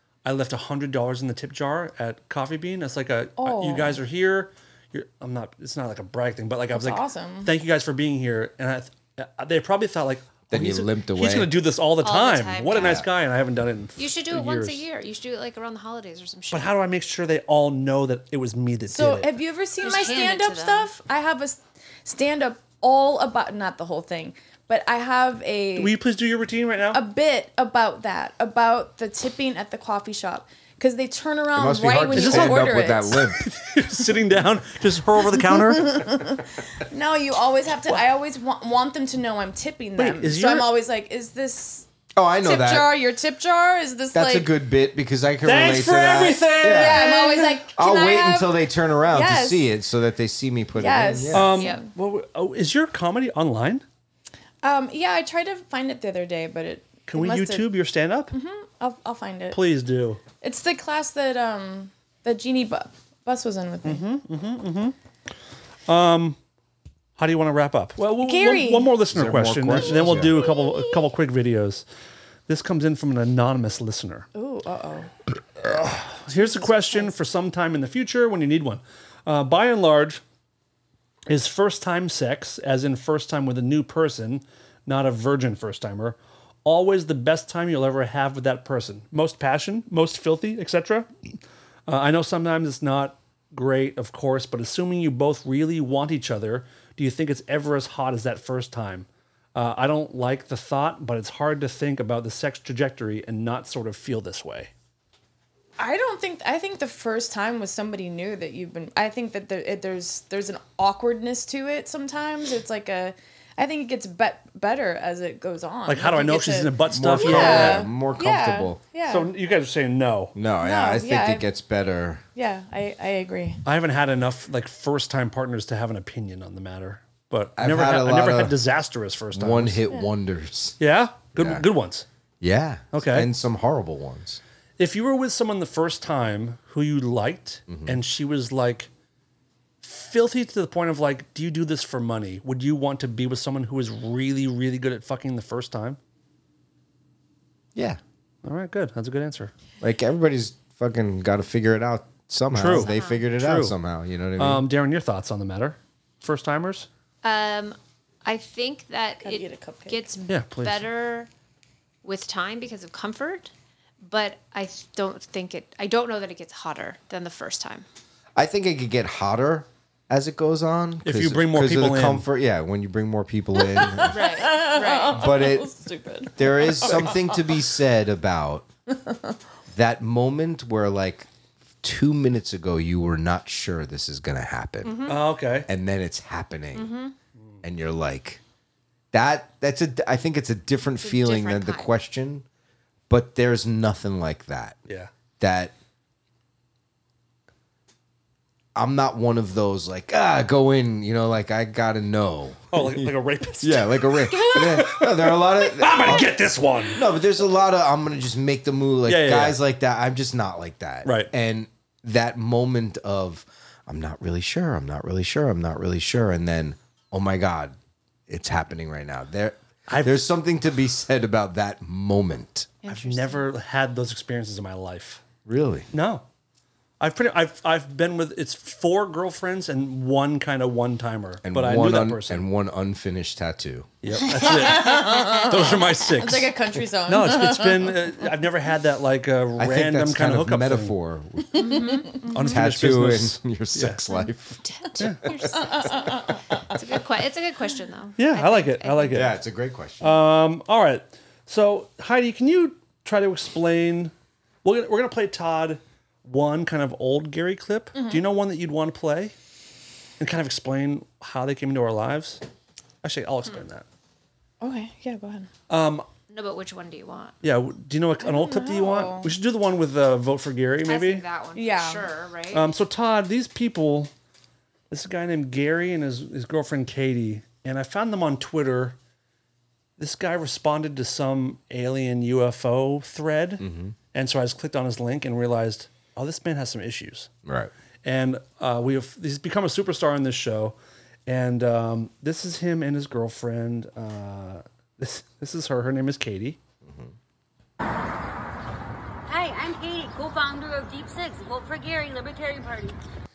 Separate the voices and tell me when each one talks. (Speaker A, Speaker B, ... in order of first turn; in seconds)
Speaker A: 0.2-14.8, 16.5-19.3, 25.8-27.0, 32.1-36.0, 40.0-40.7, 45.4-47.6, 51.3-53.8, 57.1-58.3, 59.5-60.2, 63.9-65.0, 65.9-66.4, 67.2-71.8, 72.5-74.3, 75.6-80.2, 81.3-91.1, 91.9-104.7, 115.9-117.9, 119.1-120.3, 123.7-129.8, 130.8-132.1, 132.9-133.3, 134.8-138.9, 139.8-146.0, 148.4-149.5, 152.5-153.8, 154.4-156.9, 160.3-160.9, 171.0-172.3, 185.1-185.7, 202.7-207.0, 209.1-209.6, 211.1-211.3, 219.9-220.3, 222.9-225.2, 225.9-226.2, 227.0-232.5, 234.0-240.9, 242.3-244.0, 245.0-245.2, 248.2-249.3, 250.0-254.1, 254.6-259.4, 260.2-262.4, 263.0-263.9, 265.7-266.1, 267.4-271.2, 272.5-274.1, 274.9-279.0, 280.0-287.3, 288.1-290.8, 291.3-296.6
Speaker B: 3.4-4.0, 6.7-7.5, 18.9-26.0, 26.9-33.2, 35.7-41.9, 42.4-44.5, 46.7-49.7, 50.8-51.9, 54.6-57.7, 58.3-59.6, 60.4-64.0, 68.2-68.9, 74.3-75.1, 76.3-77.1, 105.8-119.3, 120.6-121.5, 122.4-123.6, 159.2-160.1, 173.6-177.4, 178.9-179.4, 234.5-238.1, 241.5-242.2, 245.6-246.6, 257.9-258.2, 264.6-265.5, 268.2-269.3, 271.6-272.2
Speaker C: 10.5-11.5, 12.7-13.1, 31.6-33.5, 42.1-42.9, 44.1-47.1, 47.8-51.6, 69.1-70.5, 116.9-118.8, 120.3-122.2, 127.6-128.6, 129.3-130.8, 131.4-131.7, 132.4-134.4, 137.7-138.0, 147.8-148.0, 149.8-154.6, 168.4-174.3, 175.1-175.7, 176.4-178.7, 179.7-181.3, 181.8-185.0, 185.7-186.9, 187.6-188.4, 189.1-192.5, 193.1-194.8, 195.4-195.8, 198.8-206.3, 206.9-217.8, 218.3-222.7, 225.4-225.9, 231.4-233.9, 239.6-241.7, 242.3-245.7, 249.1-250.2, 283.6-284.0, 287.5-287.7, 296.9-297.1
Speaker D: 12.0-13.1, 14.0-16.8, 19.8-20.9, 51.6-51.8, 152.8-153.2, 157.2-161.3, 162.0-167.9, 174.1-175.2, 184.8-185.2, 186.7-187.2, 191.0-191.9, 222.8-223.4, 234.6-235.8, 241.6-242.3, 244.7-249.3, 266.3-267.4, 270.9-272.7
Speaker E: 299.3-303.0